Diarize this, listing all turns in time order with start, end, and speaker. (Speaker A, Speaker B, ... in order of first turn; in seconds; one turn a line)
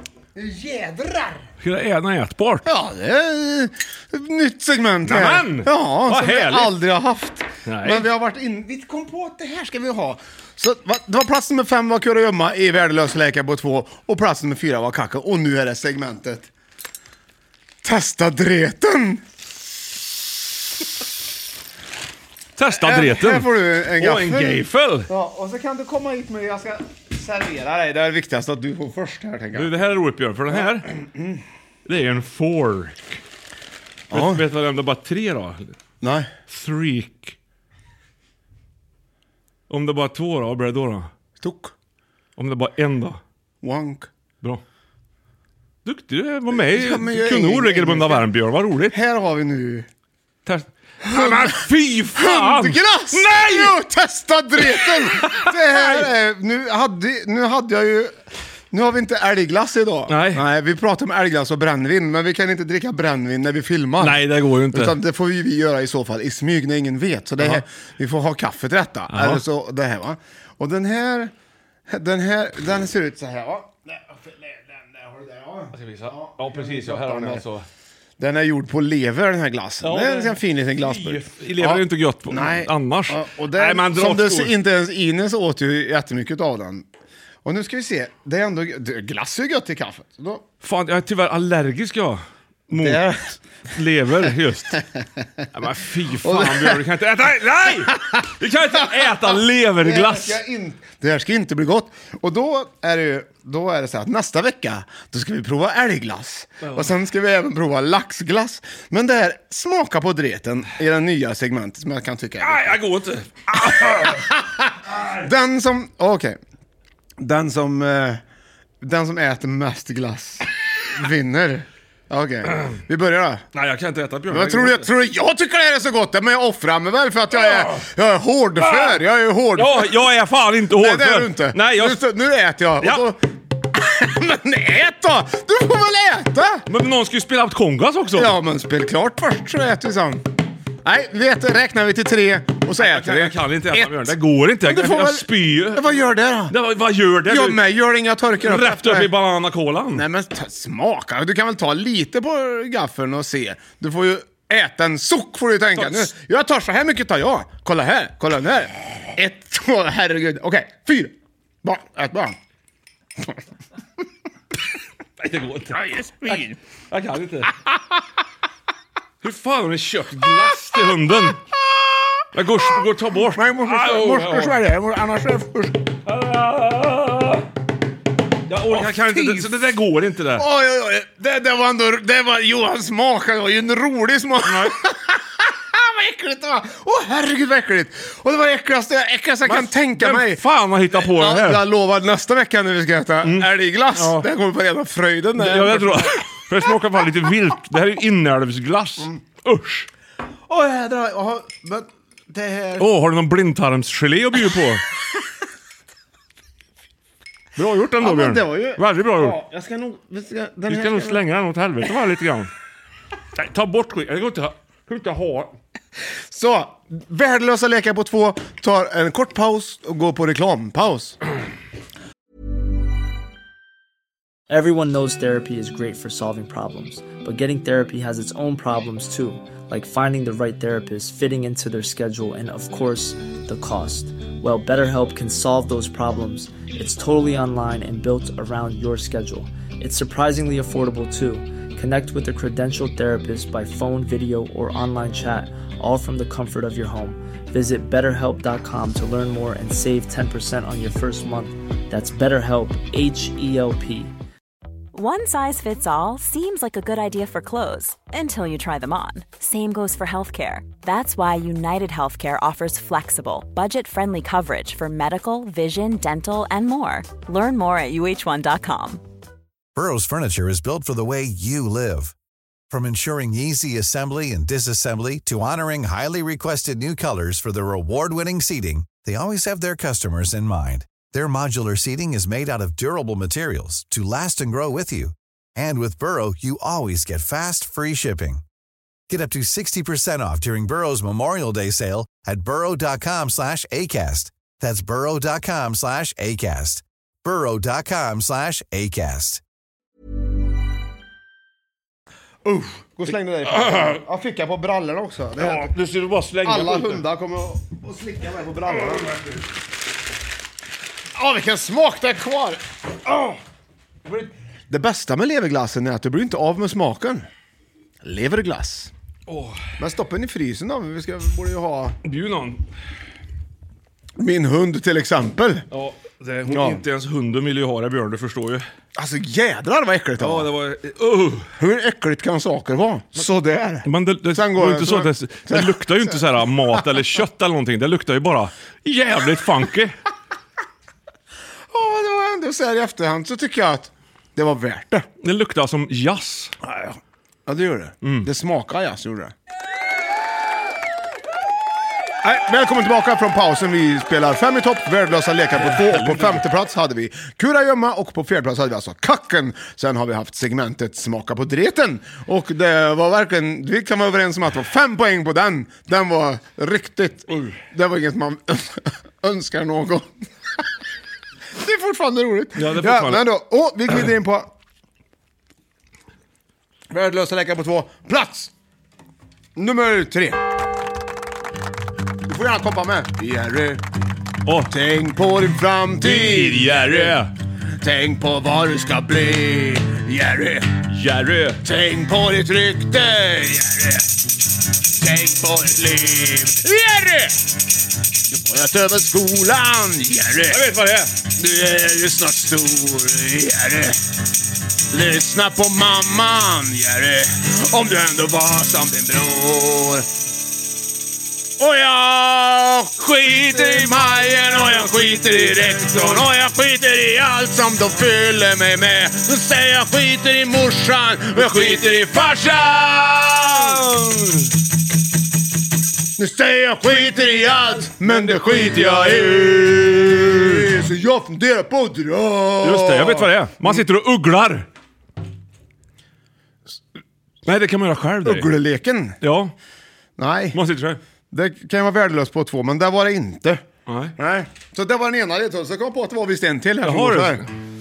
Speaker A: 0.3-1.5
Speaker B: 1.6-2.6
Speaker A: 2.6-16.5
Speaker B: 5.0-6.7
Speaker B: 7.6-8.1
Speaker A: 17.8-19.2
Speaker B: 22.6-25.1
Speaker A: 22.7-29.7
Speaker B: 29.5-30.9
Speaker A: 30.5-31.4
Speaker B: 31.8-33.2
Speaker A: 34.1-34.4
Speaker B: 34.1-35.7
Speaker A: 36.0-36.3
Speaker B: 36.5-37.4
Speaker B: 39.7-41.1
Speaker A: 41.4-41.7
Speaker B: 42.4-43.2
Speaker A: 43.6-44.1
Speaker B: 45.8-49.0
Speaker A: 46.5-48.2
Speaker A: 48.9-49.9
Speaker B: 50.4-53.8
Speaker A: 51.0-58.1
Speaker B: 54.5-56.1
Speaker A: 58.7-71.3
Speaker B: 60.1-60.4
Speaker B: 64.0-65.0
Speaker B: 69.1-69.4
Speaker A: 71.9-77.4
Speaker B: 75.7-77.7
Speaker A: 78.2-86.8
Speaker B: 79.8-84.6
Speaker A: 87.4-90.4
Speaker B: 90.6-93.0
Speaker A: 92.7-93.4
Speaker B: 93.7-94.8
Speaker B: 95.5-100.4
Speaker A: 96.1-96.8
Speaker A: 98.8-112.8
Speaker B: 112.4-114.3
Speaker A: 113.6-116.4
Speaker A: 117.2-118.2
Speaker A: 118.8-123.4
Speaker B: 123.5-124.9
Speaker A: 124.3-130.0
Speaker B: 127.3-127.8
Speaker B: 128.6-129.0
Speaker B: 129.5-132.0
Speaker A: 130.7-136.7
Speaker B: 132.8-133.1
Speaker B: 136.7-138.3
Speaker A: 138.2-140.2
Speaker A: 140.8-146.6
Speaker B: 142.8-145.9
Speaker B: 146.5-147.6
Speaker A: 147.2-149.1
Speaker B: 148.4-150.0
Speaker A: 149.9-162.4
Speaker B: 155.7-156.1
Speaker B: 165.2-167.5
Speaker A: 165.7-166.6
Speaker B: 169.2-171.4
Speaker A: 171.7-172.2
Speaker B: 172.3-174.6
Speaker A: 173.3-175.8
Speaker B: 176.1-177.5
Speaker B: 178.4-180.4
Speaker A: 178.7-179.5
Speaker A: 180.3-196.2
Speaker B: 184.4-184.8
Speaker B: 189.4-191.7
Speaker B: 193.2-194.3
Speaker B: 195.3-199.9
Speaker A: 200.5-202.9
Speaker B: 202.8-204.8
Speaker B: 207.5-209.4
Speaker A: 208.0-211.2
Speaker B: 210.7-212.5
Speaker B: 213.3-215.6
Speaker A: 216.3-221.2
Speaker C: 224.5-254.1
Speaker D: 254.9-269.0
Speaker E: 269.8-272.1
Speaker E: 272.7-288.4
Speaker E: 289.1-299.4
Speaker A: 302.4-305.7
Speaker B: 303.4-304.0
Speaker B: 305.4-307.0
Speaker A: 306.4-309.2
Speaker B: 308.9-309.2
Speaker A: 311.1-312.6
Speaker A: 314.7-317.3
Speaker A: 318.0-318.9
Speaker B: 319.3-319.6
Speaker A: 319.8-322.0
Speaker B: 322.0-322.7
Speaker A: 324.2-325.6
Speaker B: 325.7-328.6
Speaker A: 326.5-326.8
Speaker A: 328.9-330.5
Speaker B: 330.2-331.5
Speaker A: 331.6-336.8
Speaker B: 333.8-340.0
Speaker A: 341.7-345.1
Speaker B: 345.2-346.6
Speaker A: 346.6-349.3
Speaker B: 348.0-348.3
Speaker A: 352.2-370.2
Speaker B: 355.5-356.4
Speaker B: 367.3-367.6
Speaker A: 371.6-374.5
Speaker B: 372.5-373.2
Speaker A: 376.9-378.5
Speaker A: 379.6-380.4
Speaker A: 382.2-383.8
Speaker B: 384.4-384.7
Speaker A: 384.7-387.2
Speaker B: 386.0-387.3
Speaker A: 387.8-390.8
Speaker B: 390.9-391.6
Speaker A: 391.6-394.1
Speaker A: 395.0-397.4
Speaker A: 398.3-400.6
Speaker B: 400.5-401.1
Speaker A: 401.2-404.0
Speaker A: 404.9-410.1
Speaker A: 411.6-423.8
Speaker B: 415.4-416.2
Speaker B: 423.5-424.5
Speaker A: 426.2-433.8
Speaker B: 428.1-429.6
Speaker B: 430.2-430.6
Speaker B: 432.6-434.7
Speaker B: 437.4-438.5
Speaker A: 438.2-439.2
Speaker B: 439.2-439.5
Speaker A: 440.2-440.6
Speaker B: 440.5-441.0
Speaker A: 441.3-443.6
Speaker B: 443.9-444.1
Speaker A: 444.2-447.4
Speaker B: 446.8-447.5